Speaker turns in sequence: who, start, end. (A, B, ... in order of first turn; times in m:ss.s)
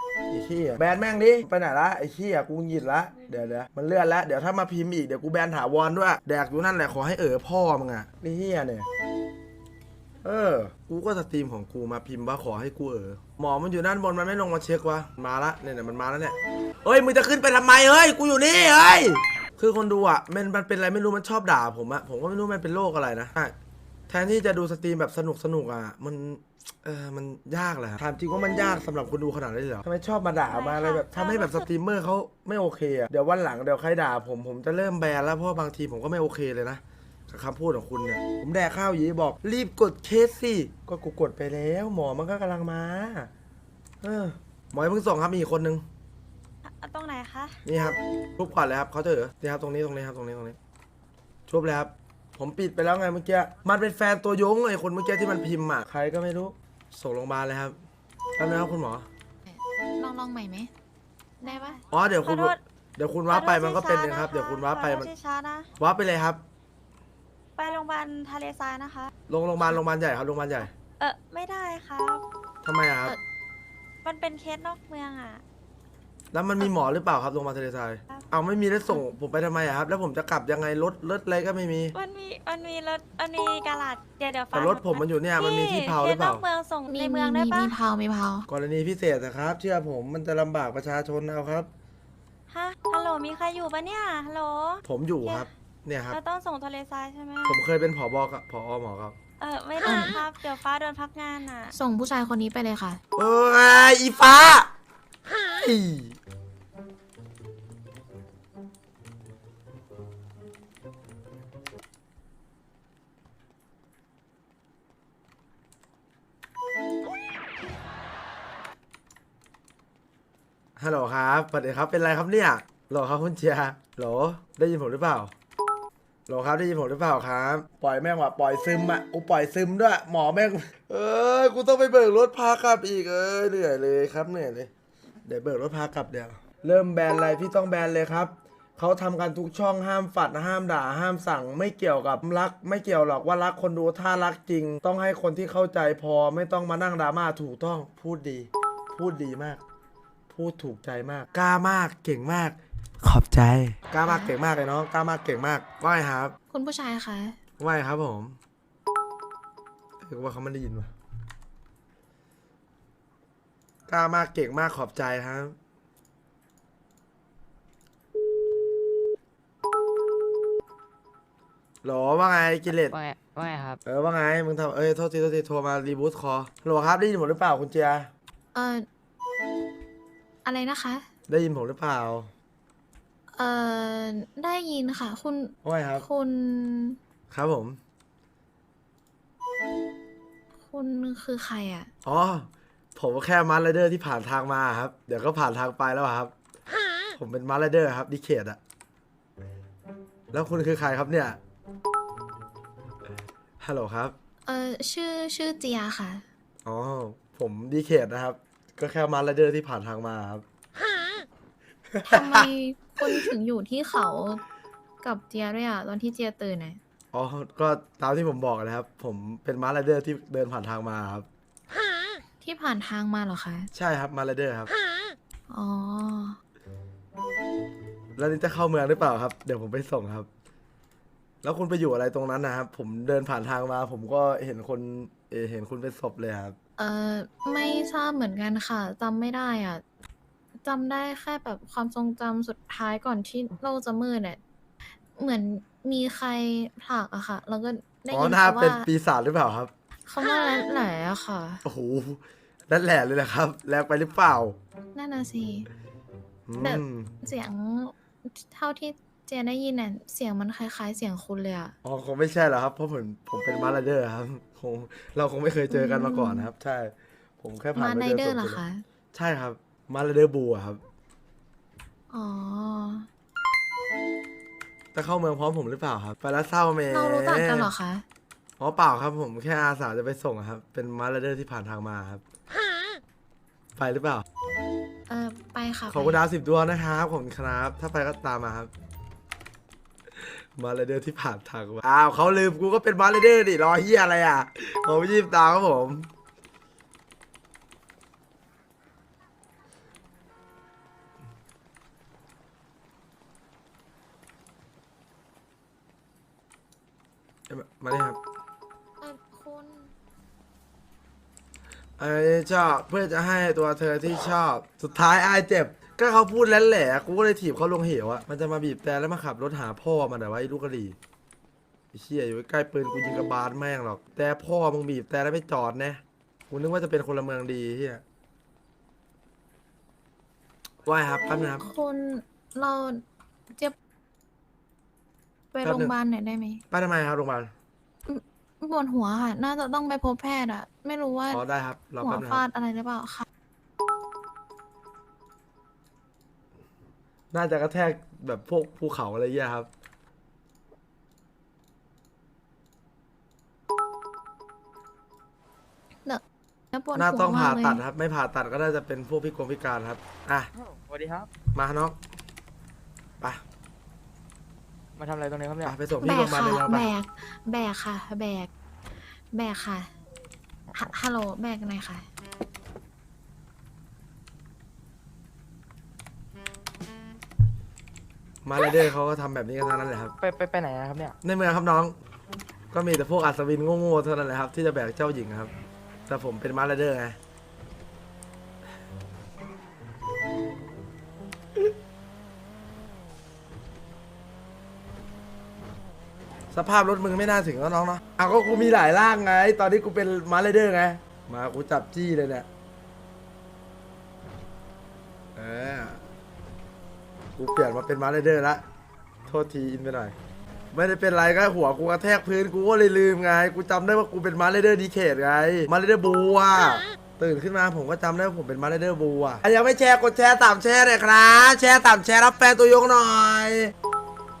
0:00.3-0:08.9 A
0:10.2-0:23.5 A
0:24.1-0:43.3 A
0:30.5-0:31.7 B
0:44.0-0:45.8 A
0:46.6-0:47.6 B
0:47.6-0:50.6 A
0:51.5-0:57.8 A
0:58.4-0:59.1 A
0:59.5-1:00.7 C
1:01.4-1:01.8 C
1:01.4-1:02.6 B
1:01.9-1:05.1 A
1:03.3-1:05.7 B
1:05.8-1:06.4 A
1:07.6-1:09.1 B
1:09.3-1:10.7 A
1:11.0-1:12.2 B
1:12.6-1:13.2 A
1:14.0-1:15.4 B
1:16.3-1:21.9 A
1:21.9-1:27.8 B
1:24.5-1:26.4 A
1:26.9-1:28.5 C
1:28.5-1:31.7 A
1:32.5-1:35.5 B
1:34.8-1:36.2 A
1:36.1-1:37.6 B
1:37.4-1:39.2 A
1:39.4-1:41.7 B
1:39.8-1:40.2 C
1:41.7-1:43.0 C
1:43.2-1:44.7 A
1:45.5-1:46.2 A
2:00.8-2:05.3 A
2:06.3-2:14.7 A
2:15.2-2:29.6 A
2:30.3-2:36.3 A
2:34.0-2:34.3 C
2:36.5-2:37.4 C
2:37.6-2:38.4 A
2:40.0-2:40.9 A
2:43.9-2:45.5 A
2:51.8-2:52.9 A
2:52.9-2:53.8 D
2:53.8-2:58.1 A
2:58.5-2:58.8 C
3:00.4-3:01.0 C
3:01.3-3:02.3 A
3:03.4-3:07.0 C
3:05.6-3:06.1 A
3:07.3-3:07.8 A
3:10.6-3:11.9 C
3:12.0-3:16.3 A
3:17.2-3:18.6 A
3:20.3-3:21.4 A
3:23.6-3:24.1 A
3:24.4-3:26.2 C
3:26.6-3:30.4 A
3:31.9-3:32.5 A
3:32.1-3:34.4 C
3:35.0-3:36.8 C
3:37.1-3:41.3 A
3:42.4-3:43.7 C
3:43.7-3:44.7 A
3:45.5-3:46.4 C
3:48.2-3:50.3 A
3:51.4-3:56.6 A
3:56.8-3:59.8 C
4:00.6-4:04.4 C
4:05.2-4:08.9 C
4:08.1-4:09.7 A
4:10.0-4:11.6 C
4:10.2-4:10.8 B
4:11.6-4:14.6 A
4:14.9-4:15.7 C
4:16.5-4:17.1 A
4:16.6-4:21.7 C
4:21.8-4:28.6 A
4:25.7-4:26.5 C
4:27.7-4:28.8 C
4:29.1-4:30.8 A
4:32.1-4:33.1 C
4:34.9-4:37.7 A
4:36.9-4:38.0 C
4:38.6-4:42.2 A
4:43.8-4:44.2 A
4:45.1-4:46.2 C
4:45.9-4:48.7 A
4:50.2-4:56.1 A
5:07.5-5:08.2 A
5:09.0-5:09.9 C
5:12.0-5:21.0 A
5:21.9-5:28.0 A
5:30.8-5:31.6 A
5:31.4-5:33.0 C
5:35.5-5:36.6 C
5:35.6-5:35.9 A
5:36.7-5:37.5 A
5:38.1-5:41.4 C
5:41.3-5:42.4 A
5:42.0-5:43.2 C
5:47.3-5:49.7 A
5:56.0-5:57.8 C
5:56.9-6:00.5 A
6:00.5-6:01.3 D
6:01.5-6:02.0 A
6:05.0-6:05.8 D
6:05.6-6:06.9 A
6:06.0-6:08.5 C
6:09.3-6:09.9 C
6:10.7-6:12.0 C
6:18.4-6:20.1 A
6:20.2-6:21.2 D
6:21.2-6:22.0 A
6:22.7-6:25.5 A
6:26.1-6:27.2 A
6:36.5-6:42.5 A
6:45.4-6:46.0 A
6:47.4-6:48.6 A
6:49.3-6:50.1 A
6:50.7-7:03.7 A